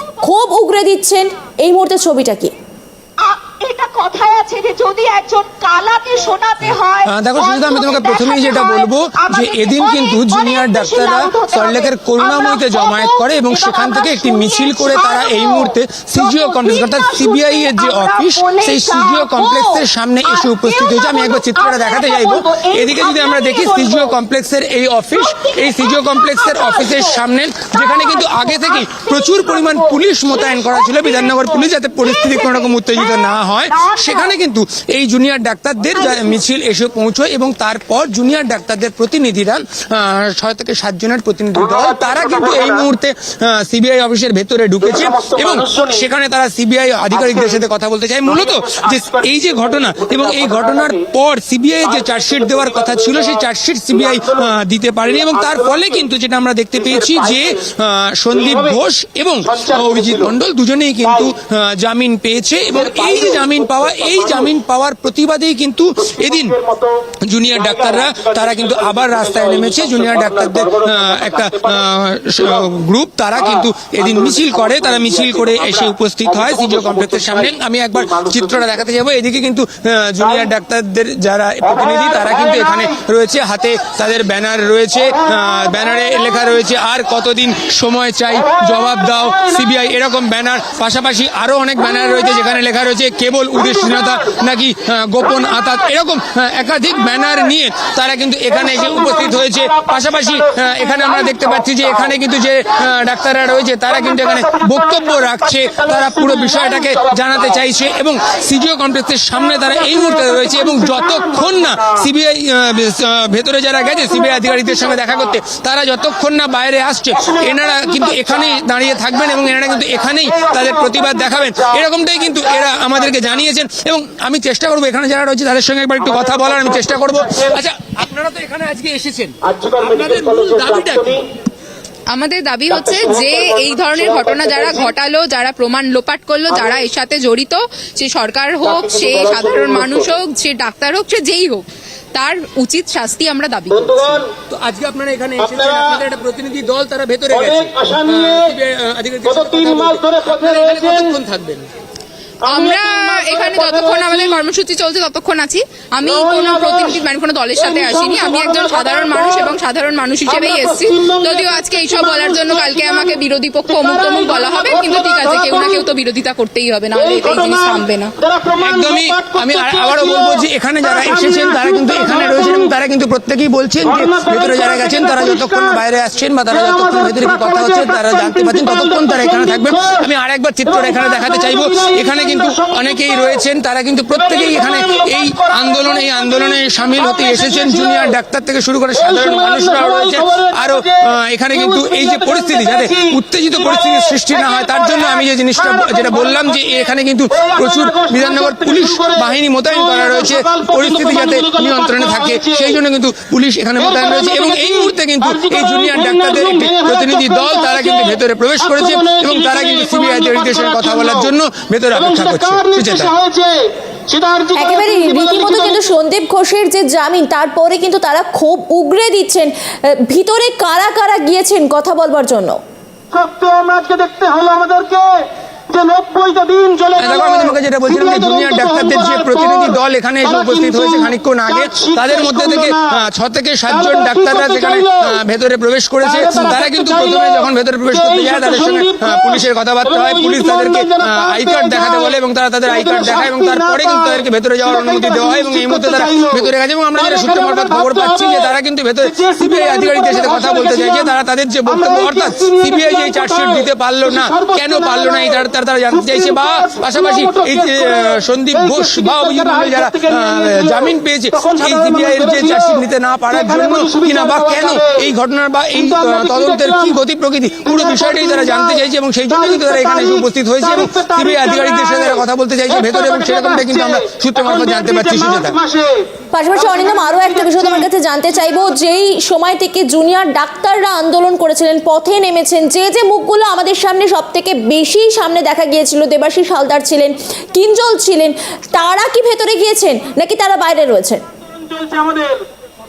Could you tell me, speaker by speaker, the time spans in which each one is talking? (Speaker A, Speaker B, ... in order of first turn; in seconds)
Speaker A: 0.2-2.5, 214.5-222.6, 276.3-291.2
Speaker B: 3.2-19.9, 20.5-24.0, 25.3-27.1, 27.8-28.9, 32.1-34.3
Speaker C: 6.6-66.6, 67.2-131.2, 144.5-151.7, 168.6-213.1, 227.0-275.6
Speaker D: 45.2-45.8, 68.1-68.4, 70.7-71.2, 129.5-130.9, 147.6-148.3, 149.4-150.9, 152.9-153.3, 158.4-159.2, 160.4-162.7, 164.3-165.2, 167.2-167.5, 168.2-170.3, 171.3-171.9, 174.0-175.4, 176.7-178.0, 181.6-181.9, 197.5-199.2, 199.9-201.7, 202.3-202.6, 204.0-204.7, 205.4-207.5, 208.9-211.1, 212.2-215.5, 223.1-227.1, 228.2-229.1, 231.7-232.7, 234.0-235.1, 236.2-237.2, 238.1-239.2, 240.1-242.0, 243.0-243.8, 244.9-246.3, 247.1-248.0, 249.2-250.8, 251.8-253.2, 254.3-255.0, 256.3-257.9, 258.7-260.7, 261.4-262.7, 263.6-264.4, 265.9-266.7, 268.0-268.5, 269.6-270.1, 270.8-271.9, 272.8-273.8, 274.5-276.1, 291.7-292.4
Speaker E: 132.1-144.3, 152.4-168.2